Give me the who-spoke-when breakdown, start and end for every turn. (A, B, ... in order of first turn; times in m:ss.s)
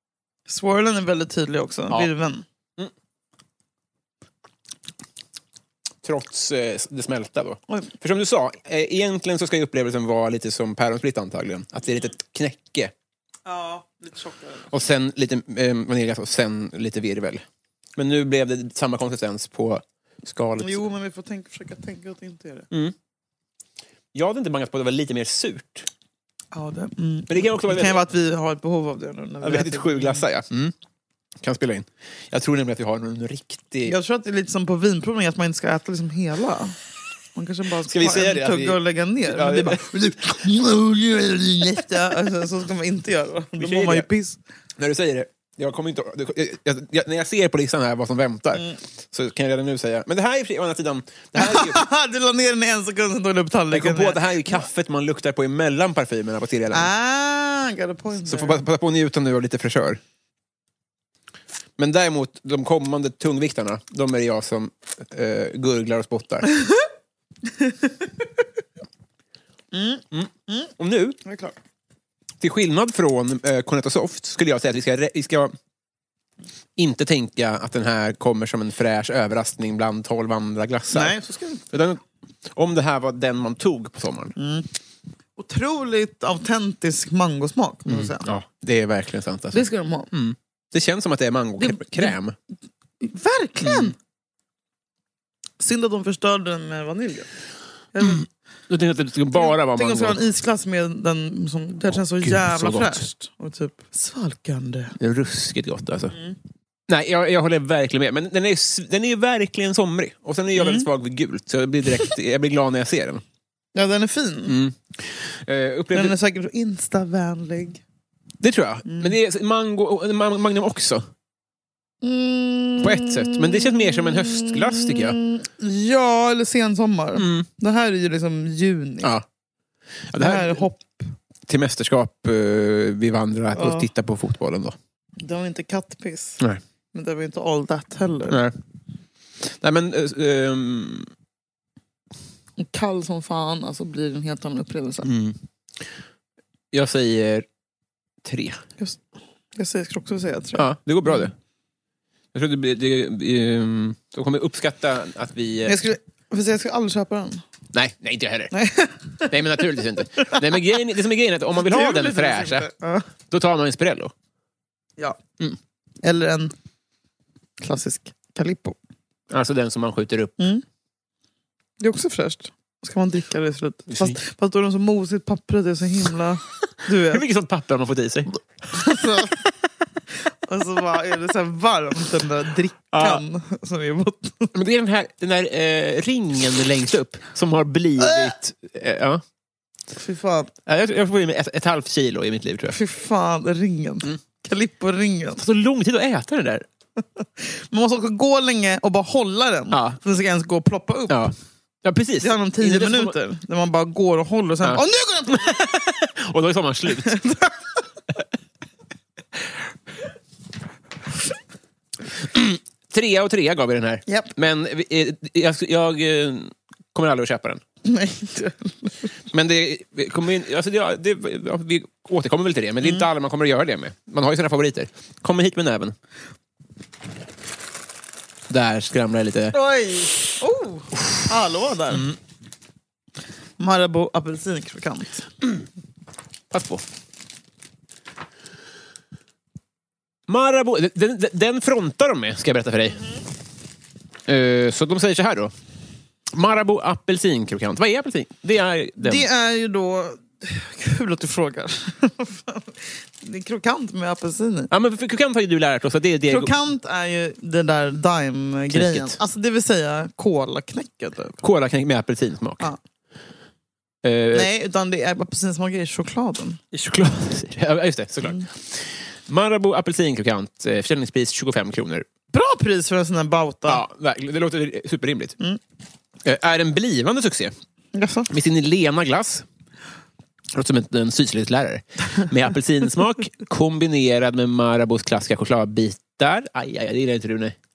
0:00.5-0:02.4 A
0:06.0-0:12.9 B
0:13.4-0:14.7 A
0:14.7-0:17.4 B
0:18.0-0:20.8 B
0:20.6-0:22.7 A
0:24.1-0:25.9 B
0:26.5-0:30.2 A
0:27.3-0:28.0 B
0:29.4-0:30.7 B
0:31.4-0:33.9 B
0:33.8-0:36.8 A
0:37.3-0:44.4 A
0:37.8-0:40.1 B
0:43.6-0:44.1 B
0:44.8-0:51.8 B
0:51.4-0:54.6 A
0:53.7-0:56.9 B
0:56.7-0:58.6 A
0:58.2-1:00.0 B
1:01.8-1:06.5 B
1:09.7-1:10.7 A
1:10.1-1:11.2 B
1:11.2-1:11.5 A
1:12.4-1:15.5 B
1:16.8-1:21.2 B
1:20.9-1:21.6 A
1:21.7-1:22.0 B
1:22.5-1:24.3 B
1:24.4-1:24.7 A
1:25.4-1:28.3 A
1:27.8-1:32.4 B
1:29.5-1:30.1 A
1:31.6-1:32.1 A
1:33.0-1:33.9 A
1:33.6-1:33.9 B
1:35.6-1:37.3 A
1:37.9-1:38.2 A
1:38.0-1:40.3 B
1:39.3-1:44.9 A
1:41.9-1:43.0 B
1:45.0-1:46.1 B
1:46.9-1:53.2 B
1:50.5-1:50.9 A
1:53.7-1:54.6 A
1:54.4-1:56.1 B
1:55.9-1:57.8 A
1:58.4-2:01.0 B
1:58.9-1:59.2 A
2:02.0-2:09.1 A
2:02.8-2:05.2 B
2:07.1-2:07.5 B
2:10.1-2:10.6 B
2:10.2-2:11.1 A
2:11.5-2:14.7 B
2:13.5-2:13.9 A
2:15.2-2:16.4 A
2:16.9-2:18.4 A
2:18.3-2:18.5 B
2:19.4-2:21.1 B
2:22.6-2:25.1 A
2:25.0-2:25.4 B
2:26.7-2:27.4 B
2:28.2-2:28.6 B
2:29.5-2:31.3 A
2:30.5-2:31.3 B
2:32.3-2:35.8 B
2:35.6-2:37.4 A
2:37.7-2:38.5 B
2:38.5-2:39.6 A
2:39.2-2:42.7 B
2:41.5-2:43.1 A
2:43.3-2:44.1 B
2:46.0-2:46.5 A
2:47.6-2:48.8 A
2:49.3-2:50.4 B
2:50.4-2:50.6 A
2:51.8-2:57.2 A
2:53.9-2:54.2 B
2:56.9-2:58.4 B
2:58.7-2:59.4 A
3:00.4-3:04.5 A
3:02.9-3:03.2 B
3:04.5-3:09.2 B
3:08.0-3:08.3 A
3:10.0-3:10.5 A
3:10.6-3:12.8 B
3:12.7-3:15.4 A
3:15.4-3:16.6 B
3:17.4-3:21.3 A
3:19.7-3:20.0 B
3:21.1-3:23.2 B
3:22.2-3:25.7 A
3:24.6-3:27.1 B
3:26.9-3:27.5 A
3:32.3-3:37.6 B
3:37.8-3:39.1 A
3:39.3-3:45.9 B
3:48.5-3:49.6 B
3:49.5-3:52.0 A
3:51.9-3:52.2 B
3:53.6-3:55.3 A
3:56.5-3:56.8 B
4:00.3-4:03.1 B
4:04.3-4:05.5 B
4:06.3-4:09.3 B
4:09.0-4:14.7 A
4:14.7-4:16.5 B
4:16.3-4:21.4 A
4:18.7-4:19.2 B
4:21.4-4:22.7 B
4:24.0-4:24.5 B
4:24.3-4:26.6 A
4:26.7-4:32.0 B
4:32.3-4:33.8 A
4:33.6-4:35.4 B
4:36.2-4:37.5 B
4:37.9-4:38.3 A
4:38.3-4:39.4 B
4:40.5-4:47.5 B